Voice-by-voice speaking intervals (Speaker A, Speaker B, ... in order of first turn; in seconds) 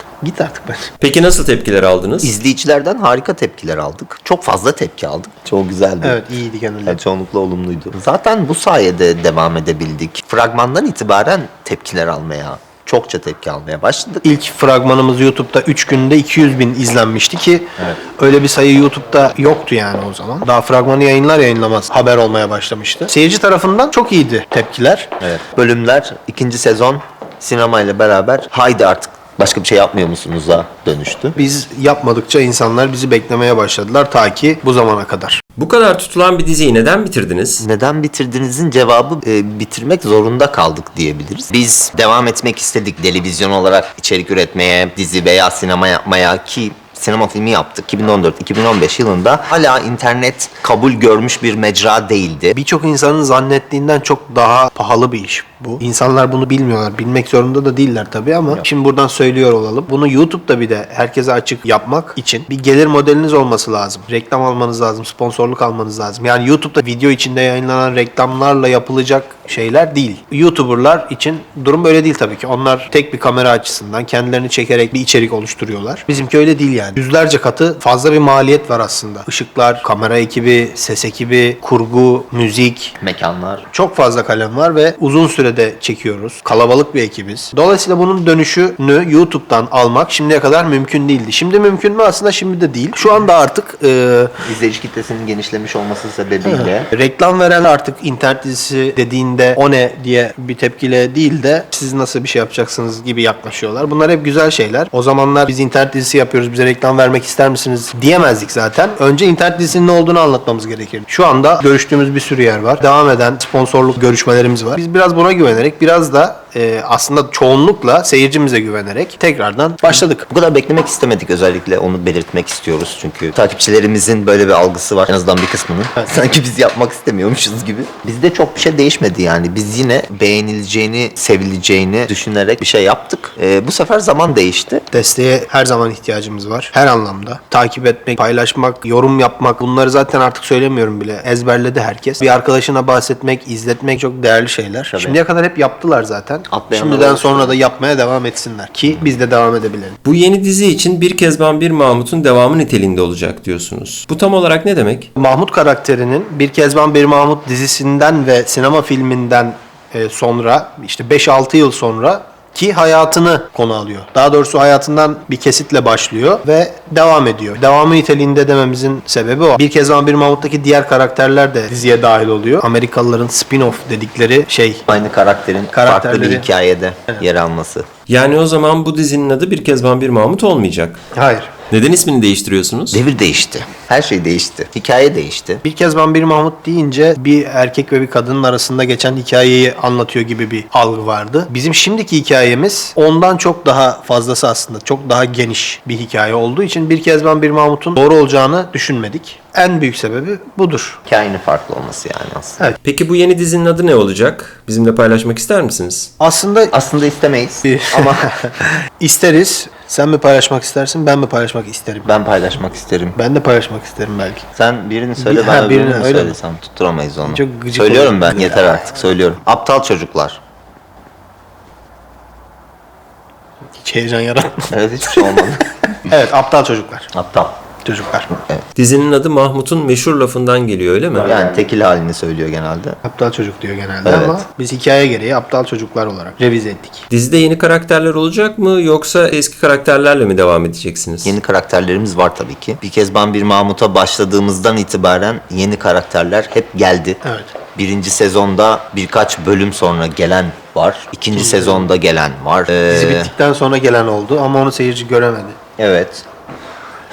Speaker A: 0.2-0.9, 6.0-7.0, 14.2-25.1, 31.4-35.4, 52.5-82.9, 83.7-94.3, 96.5-120.2, 134.9-149.9, 155.2-174.8, 175.7-176.5, 181.1-181.5, 185.6-201.0, 206.2-206.7, 207.6-212.1, 213.2-214.4, 215.2-216.3, 217.3-218.8, 223.8-225.4, 226.1-227.1, 227.8-228.3, 233.0-237.0, 247.2-247.5, 251.3-251.8, 252.9-255.6
Speaker B: 1.0-2.3, 35.6-37.6, 150.0-155.1, 178.1-181.0, 181.7-183.0, 202.8-206.1, 228.7-231.3, 237.1-241.4
Speaker C: 2.2-6.2, 6.8-14.2, 25.2-31.4, 37.6-52.5, 83.0-83.6, 94.4-96.9, 120.3-134.8, 144.9-145.2, 146.5-147.6, 174.9-177.8, 182.9-185.6, 201.1-202.6, 206.7-208.3, 212.1-213.2, 214.5-220.4, 224.7-225.9, 227.1-227.6, 228.3-228.6, 231.1-233.0, 234.0-234.4, 241.2-247.2, 247.7-253.3, 255.8-256.2